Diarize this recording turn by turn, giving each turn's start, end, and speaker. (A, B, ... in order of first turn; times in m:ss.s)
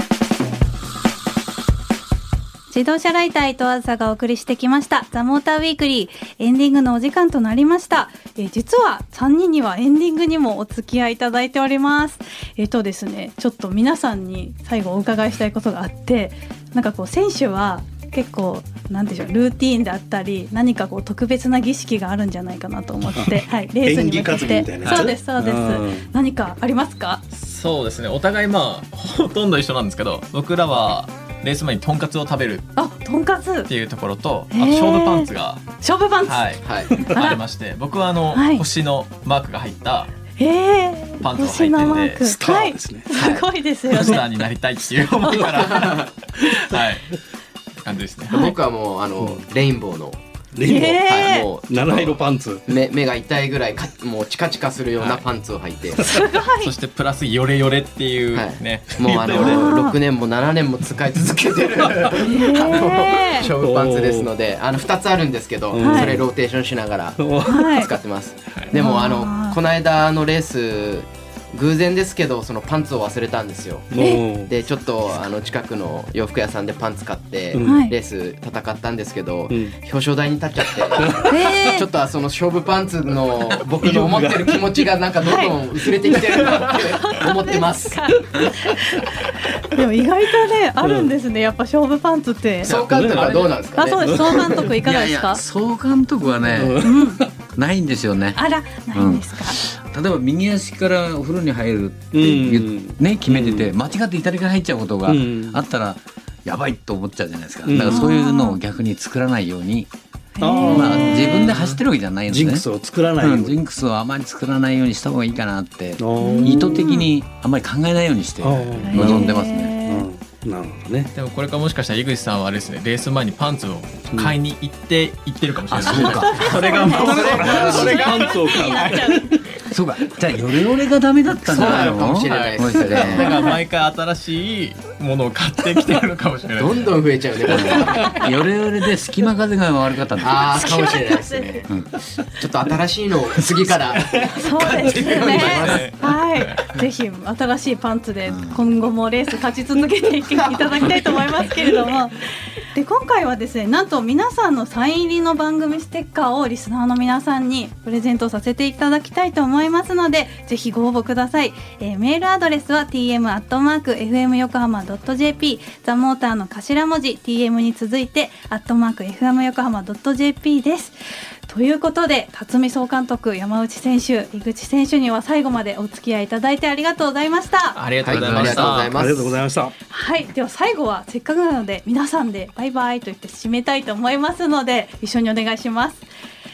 0:02.7-0:27.2 A
0:23.2-0:26.1 B
0:24.8-0:25.1 C
0:27.3-0:32.7 C
0:32.8-0:33.7 A
0:33.7-0:35.6 C
0:34.5-0:37.4 A
0:36.2-0:40.1 C
0:36.6-0:37.0 D
0:37.0-0:37.2 B
0:38.3-0:38.6 A
0:40.4-0:44.2 A
0:41.2-0:42.4 C
0:41.4-0:43.2 B
0:43.1-0:43.4 D
0:43.9-0:47.2 C
0:45.6-0:46.1 D
0:47.8-0:48.4 C
0:48.3-0:48.6 A
0:48.3-0:50.2 D
0:50.6-0:51.1 B
0:50.7-0:51.5 A
0:51.0-0:52.2 D
0:51.7-0:52.7 B
0:52.7-0:56.2 D
0:56.1-0:56.7 A
0:56.6-0:59.7 C
0:58.4-1:13.9 D
0:59.1-0:59.6 B
0:59.3-1:00.0 A
1:02.2-1:03.5 A
1:03.5-1:04.3 B
1:05.7-1:06.3 B
1:05.8-1:06.2 A
1:07.2-1:07.7 B
1:07.5-1:07.9 A
1:08.7-1:09.6 A
1:13.9-1:14.5 B
1:14.5-1:28.0 D
1:17.5-1:17.9 B
1:17.6-1:17.9 A
1:19.5-1:19.8 B
1:20.9-1:21.7 B
1:21.3-1:21.9 A
1:23.8-1:24.9 B
1:25.2-1:25.6 A
1:25.8-1:26.8 B
1:26.4-1:32.8 A
1:28.4-1:28.8 B
1:30.8-1:31.2 B
1:32.6-1:34.7 D
1:32.6-1:34.7 B
1:33.7-1:35.4 A
1:34.8-1:38.4 E
1:36.5-1:37.3 B
1:36.8-1:37.2 A
1:38.4-1:39.6 A
1:38.9-1:49.9 E
1:42.1-1:43.7 B
1:45.0-1:45.6 B
1:47.6-1:48.1 B
1:47.8-1:48.6 A
1:50.4-1:51.2 A
1:50.4-1:53.6 B
1:50.6-1:52.7 E
1:53.2-1:59.7 E
1:56.0-1:56.9 B
1:56.2-1:57.1 A
1:58.4-2:01.1 B
1:58.8-2:00.1 A
2:01.1-2:09.2 C
2:05.7-2:06.6 E
2:05.9-2:09.3 A
2:06.6-2:09.6 B
2:06.9-2:08.1 D
2:09.7-2:13.4 E
2:11.4-2:13.4 D
2:11.5-2:17.0 C
2:13.2-2:13.6 A
2:16.6-2:18.2 D
2:17.5-2:20.8 E
2:17.6-2:18.2 B
2:18.0-2:18.2 A
2:20.2-2:21.7 D
2:20.6-2:21.7 A
2:21.6-2:21.9 E
2:22.4-2:26.0 D
2:24.4-2:57.8 A
2:25.2-2:26.6 C
2:28.3-2:28.6 E
2:30.3-2:31.5 D
2:57.8-2:58.9 C
2:58.0-2:59.4 D
2:58.1-2:58.8 E
2:58.9-2:59.7 B
2:59.9-3:06.1 A